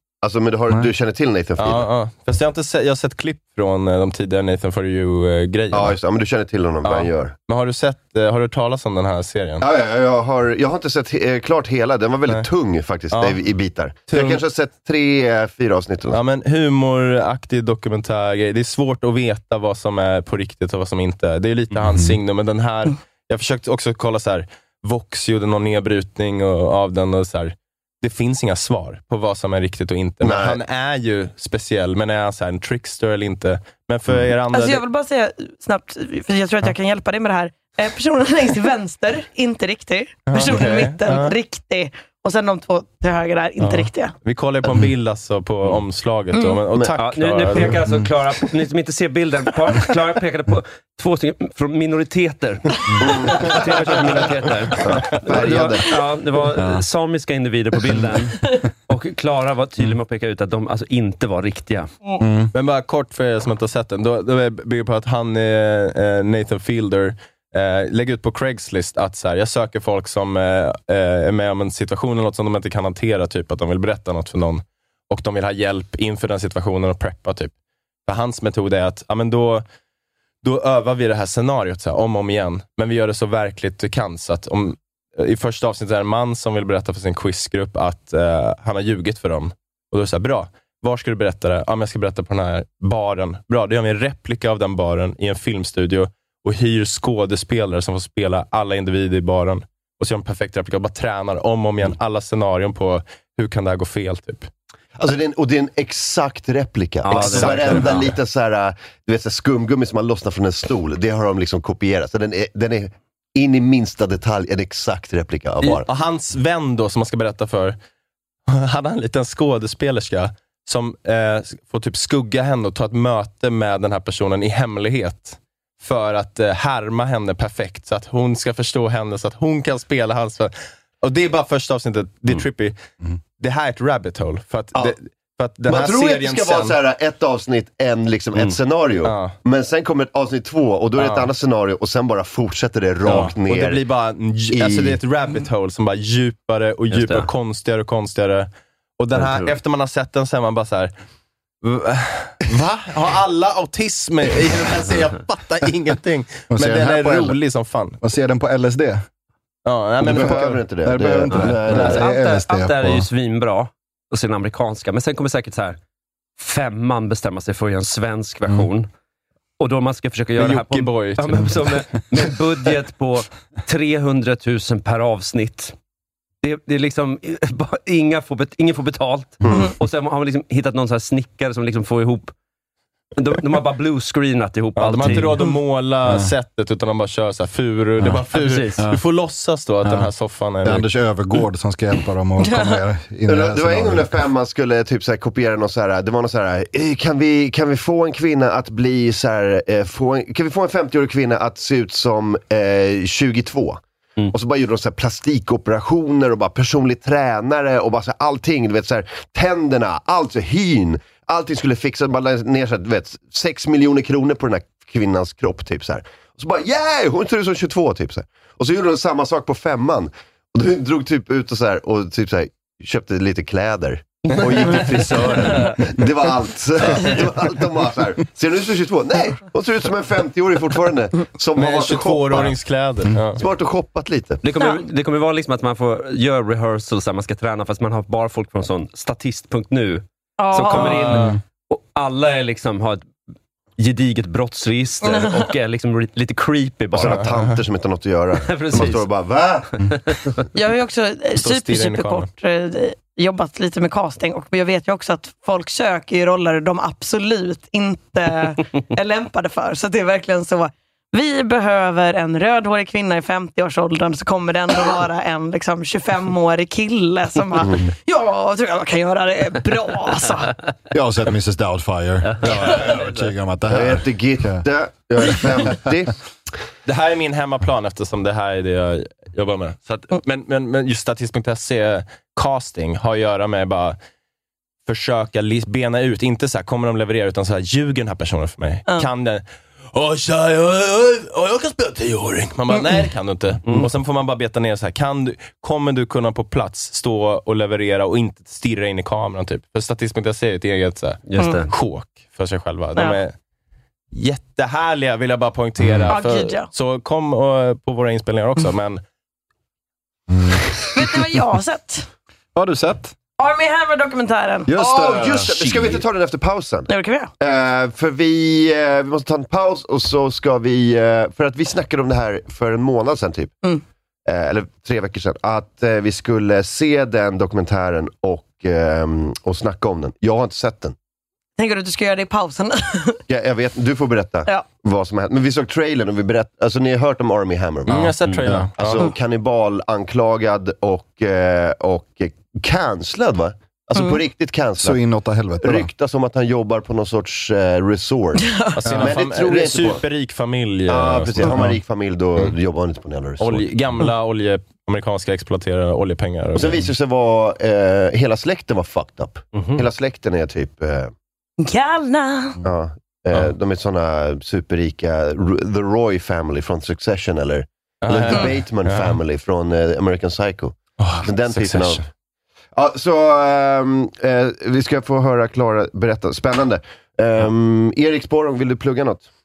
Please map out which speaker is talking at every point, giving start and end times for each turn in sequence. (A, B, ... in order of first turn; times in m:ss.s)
0:00.2-0:01.8 A
0:01.6-0:06.0 B
0:05.7-0:07.3 A
0:06.8-0:09.6 B
0:09.6-0:16.2 A
0:13.1-0:13.4 B
0:14.1-0:14.4 B
0:16.1-0:34.8 B
0:21.8-0:22.2 C
0:30.2-0:30.6 A
0:34.5-0:44.1 D
0:40.3-0:41.4 B
0:43.6-0:47.9 B
0:46.9-1:01.9 E
0:47.7-0:48.1 C
0:53.0-0:53.6 A
0:54.8-0:56.0 A
0:56.5-0:56.8 C
1:02.2-1:02.5 C
1:02.5-1:17.5 B
1:18.0-1:19.6 B
1:20.4-1:44.5 B
1:45.0-1:55.8 A
1:47.0-1:48.0 E
1:47.1-1:48.1 B
1:55.6-1:57.8 B
1:58.5-2:12.8 B
2:13.4-2:16.8 B
2:15.7-2:23.8 A
2:19.0-2:19.4 B
2:21.0-2:21.3 B
2:23.0-2:30.9 B
2:24.5-2:25.0 A
2:26.9-2:27.3 E
2:29.1-2:29.5 E
2:31.6-2:38.0 B
2:36.5-2:37.4 C
2:38.0-2:39.0 C
2:39.6-2:40.6 B
2:40.0-2:43.1 C
2:40.0-2:42.0 A
2:41.3-2:45.8 E
2:41.6-2:42.0 B
2:46.4-2:48.9 E
2:49.6-2:55.7 E
2:50.4-2:51.7 B
2:56.4-3:02.3 E
3:03.2-3:05.4 E
3:04.8-3:10.9 B
3:06.1-3:06.3 C
3:08.3-3:08.8 E
3:09.8-3:10.1 C
3:10.6-3:14.2 C
3:12.4-3:12.8 D
3:13.3-3:23.8 A
3:24.3-3:52.5 A
3:44.2-3:45.7 E
3:51.6-3:53.4 B
3:53.4-3:54.4 A
3:54.4-4:03.0 E
3:54.6-3:54.8 D
4:00.4-4:01.2 D
4:00.7-4:01.3 B
4:01.1-4:01.4 C
4:03.8-4:07.3 E
4:05.0-4:05.5 D
4:06.9-4:09.7 A
4:07.0-4:07.4 B
4:08.4-4:09.1 E
4:09.8-4:10.4 E
4:10.5-4:30.6 D
4:11.4-4:12.3 B
4:30.9-4:34.6 C
4:32.3-4:33.1 E
4:33.7-4:36.1 A
4:35.4-4:35.9 C
4:36.8-4:44.0 B
4:44.8-5:03.3 B
5:01.3-5:01.7 E
5:04.1-5:09.0 B
5:05.8-5:06.1 C
5:06.1-5:06.7 D
5:10.3-5:10.9 C
5:10.9-5:12.1 D
5:12.5-5:13.1 C
5:13.4-5:14.7 D
5:14.7-5:16.0 C
5:14.7-5:23.5 A
5:16.9-5:17.3 D
5:24.3-5:31.0 A
5:31.6-5:33.2 D
5:33.3-5:38.1 A
5:37.9-5:39.1 B
5:38.4-5:38.7 C
5:38.7-5:45.0 A
5:44.8-5:45.9 C
5:45.6-5:50.0 A
5:48.4-5:48.7 D
5:48.7-5:51.6 B
5:50.9-5:53.7 A
5:51.5-5:51.8 C
5:53.4-5:56.8 B
5:56.6-6:01.1 A
5:59.5-5:59.8 E
6:01.6-6:02.6 D
6:02.6-6:12.0 A
6:08.0-6:09.2 B
6:11.0-6:12.0 B
6:12.7-6:19.3 A